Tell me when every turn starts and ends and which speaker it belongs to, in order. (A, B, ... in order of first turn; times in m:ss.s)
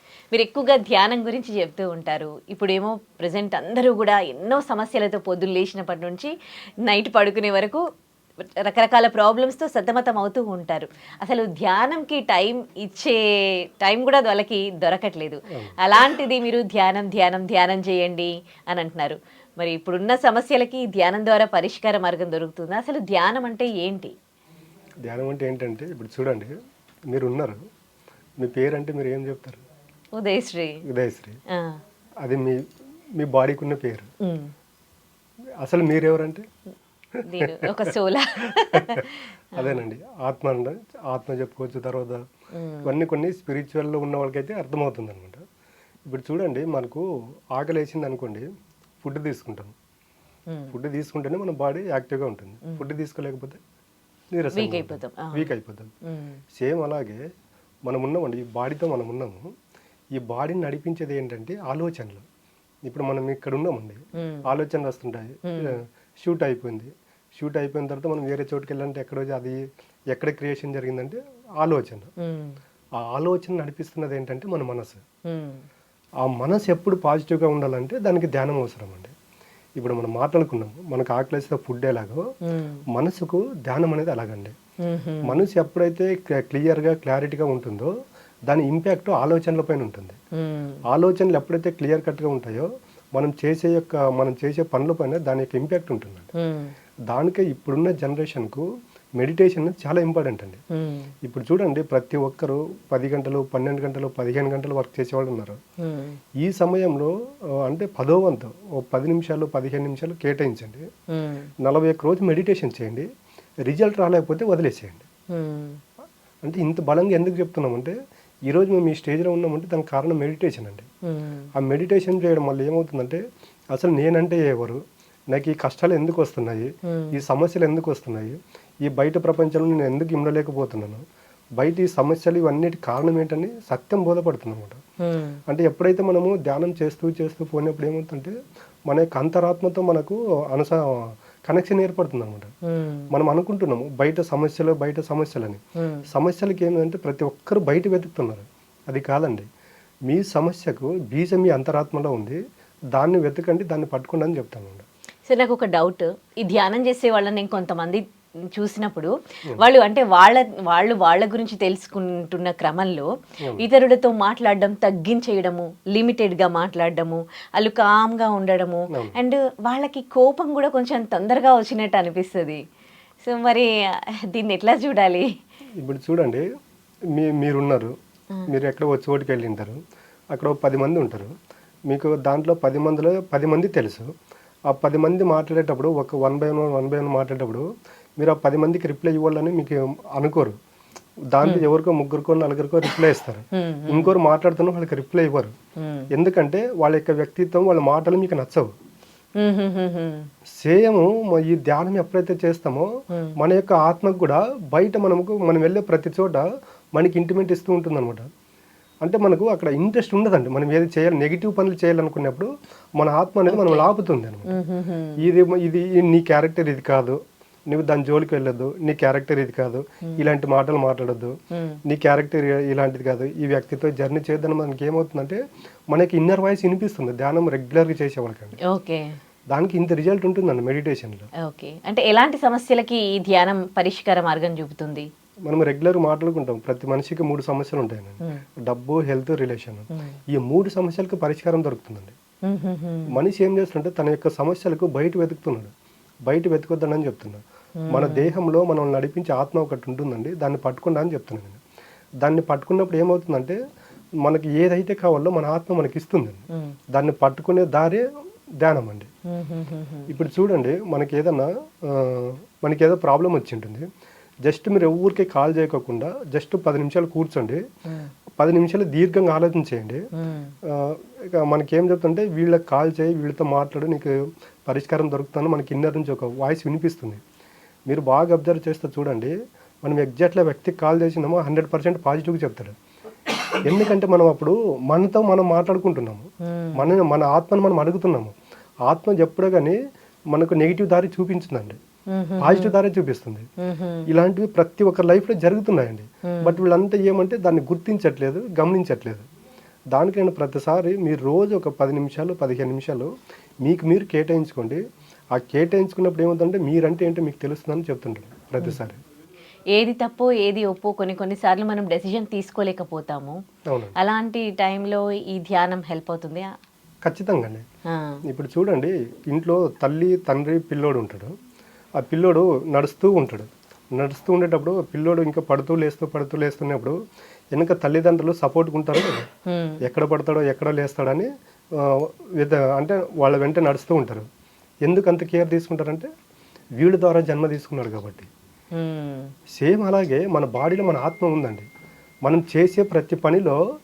0:00.3-0:06.3 A
0:06.9-0:07.8 A
0:08.6-0:13.2 A
0:13.8-0:24.1 A
0:15.5-0:15.8 B
0:25.0-0:26.5 B
0:27.1-0:27.6 B
0:28.4-0:29.6 B
0:30.1-0:30.8 A
0:30.9-0:31.4 B
0:31.5-0:31.8 A
0:32.2-0:32.6 B
0:33.2-0:34.1 B
0:34.2-0:34.5 A
0:35.6-0:36.4 B
0:37.2-0:39.8 A
0:39.6-0:42.2 B
0:42.5-0:42.9 A
0:42.8-0:45.4 B
0:46.1-0:48.4 B
0:49.0-0:49.7 B
0:50.5-0:50.7 A
0:50.7-0:53.6 B
0:54.3-0:55.9 B
0:54.5-0:55.5 A
0:56.0-0:56.4 A
0:56.6-0:57.2 B
0:57.9-0:59.5 B
1:00.2-1:02.2 B
1:02.9-1:12.1 B
1:04.2-1:04.4 A
1:05.5-1:05.7 A
1:12.2-1:12.6 A
1:13.0-1:15.0 B
1:15.3-1:15.6 A
1:16.2-1:19.1 B
1:19.8-1:22.2 B
1:22.5-1:22.8 A
1:22.9-1:24.6 B
1:24.8-1:25.4 A
1:25.2-1:27.9 B
1:28.5-1:30.2 B
1:30.4-1:30.8 A
1:30.9-1:36.3 B
1:36.3-1:36.7 A
1:37.1-1:38.7 B
1:39.2-1:40.6 B
1:40.7-1:41.1 A
1:41.2-1:45.6 B
1:45.8-1:46.2 A
1:46.4-1:50.9 B
1:51.1-1:51.5 A
1:51.6-1:53.1 B
1:53.6-1:55.0 B
1:55.3-1:55.8 A
1:56.4-1:58.0 B
1:58.5-2:00.9 B
2:01.1-2:01.5 A
2:01.6-2:03.2 B
2:03.7-2:04.8 B
2:05.3-2:11.0 B
2:06.9-2:07.2 A
2:11.6-2:14.8 B
2:15.0-2:15.4 A
2:15.5-2:18.3 B
2:18.9-2:22.5 B
2:22.7-2:23.1 A
2:23.1-2:29.5 B
2:25.8-2:26.1 A
2:30.1-2:32.4 B
2:33.0-2:34.8 B
2:35.3-2:38.0 A
2:38.5-2:43.1 A
2:43.6-2:52.6 A
2:48.9-2:49.2 B
2:53.2-2:55.3 A
2:55.8-2:56.4 B
2:57.2-2:58.0 B
2:58.5-2:59.8 B
3:00.3-3:01.3 B
3:01.9-3:04.1 B
3:04.7-3:07.7 B
3:08.2-3:10.6 B
3:11.3-3:15.6 B
3:13.6-3:14.2 A
3:15.8-3:16.1 A
3:16.1-3:18.7 B
3:19.4-3:20.3 A
3:20.6-3:28.3 B
3:29.0-3:34.6 B
3:33.5-3:33.9 A
3:34.5-3:35.2 A
3:35.2-3:37.2 B
3:37.7-3:41.3 B
3:41.5-3:41.8 A
3:41.9-3:45.4 B
3:45.9-3:48.6 B
3:48.6-3:49.2 A
3:49.5-3:51.3 B
3:51.4-3:55.1 A
3:55.5-4:02.2 B
4:02.4-4:03.2 A
4:03.1-4:05.7 B
4:06.3-4:11.6 B
4:07.8-4:08.3 A
4:12.2-4:13.6 B
4:14.2-4:18.1 B
4:18.6-4:19.1 B
4:19.3-4:20.1 A
4:20.1-4:23.8 B
4:24.4-4:27.6 B
4:28.4-4:30.0 B
4:30.2-4:30.5 A
4:30.6-4:37.2 B
4:37.9-4:42.8 B
4:43.6-4:48.4 B
4:46.4-4:46.9 A
4:48.9-4:49.8 B
4:50.3-4:51.8 B
4:52.1-4:52.8 A
4:52.4-4:53.5 B
4:53.6-4:54.1 A
4:54.1-4:59.2 B
4:56.3-4:56.6 A
4:59.9-5:03.1 B
5:03.6-5:04.8 B
5:05.4-5:09.0 B
5:09.7-5:13.4 A
5:13.7-5:14.0 B
5:14.0-5:16.5 A
5:17.0-5:17.6 B
5:17.9-5:18.2 A
5:18.2-5:21.3 B
5:22.0-5:27.0 B
5:27.5-5:29.3 B
5:29.5-5:29.8 A
5:29.8-5:34.3 B
5:34.8-5:36.1 B
5:36.8-5:38.3 B
5:38.7-5:39.3 A
5:39.6-5:41.7 B
5:42.2-5:43.6 B